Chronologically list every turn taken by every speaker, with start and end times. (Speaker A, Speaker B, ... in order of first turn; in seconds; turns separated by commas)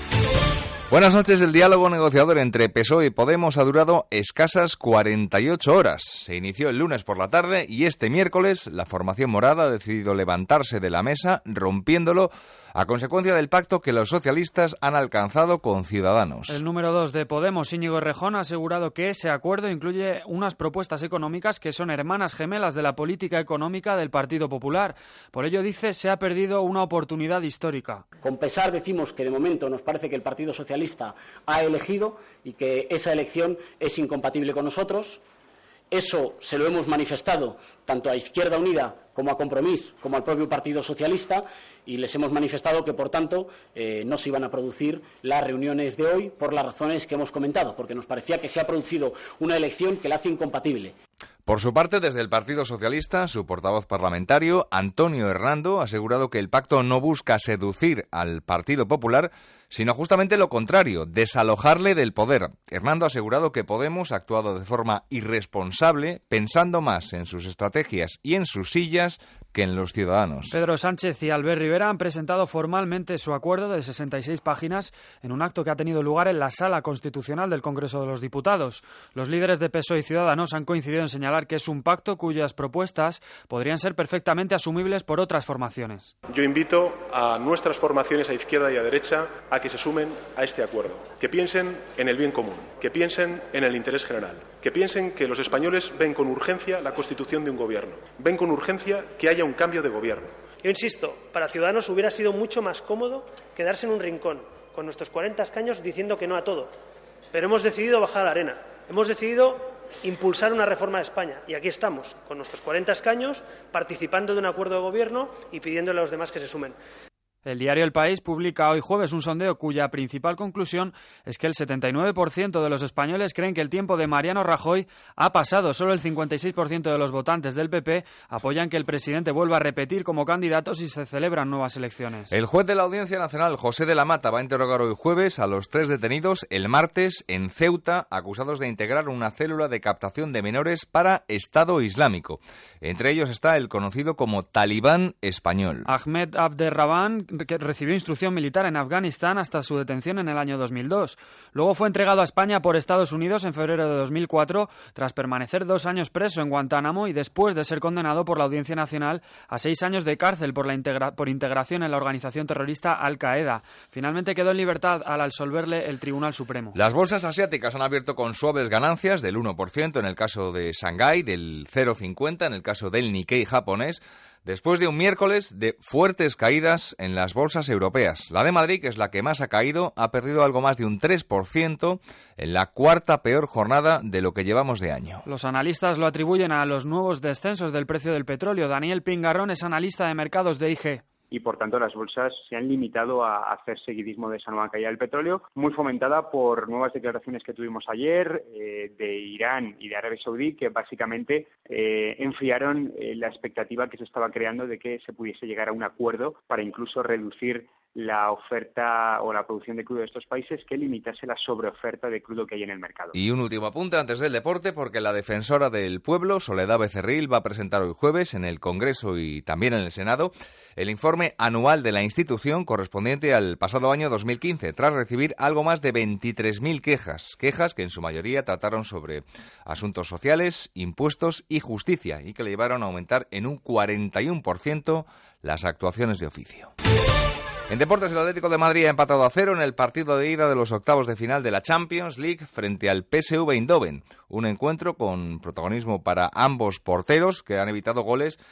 Speaker A: 0.9-16.6, Speaker B: 16.5-28.0, Speaker C: 28.2-35.2, Speaker C: 35.9-50.9, Speaker A: 51.5-70.5, Speaker B: 70.5-86.1, Speaker D: 86.3-100.4, Speaker E: 100.6-106.7, Speaker E: 107.3-116.8, Speaker B: 117.4-132.3, Speaker A: 132.3-145.9, Speaker B: 145.8-166.8, Speaker A: 166.7-185.2, Speaker B: 185.2-191.0, Speaker F: 191.3-213.2, Speaker A: 213.1-236.7, Speaker A: 237.7-248.4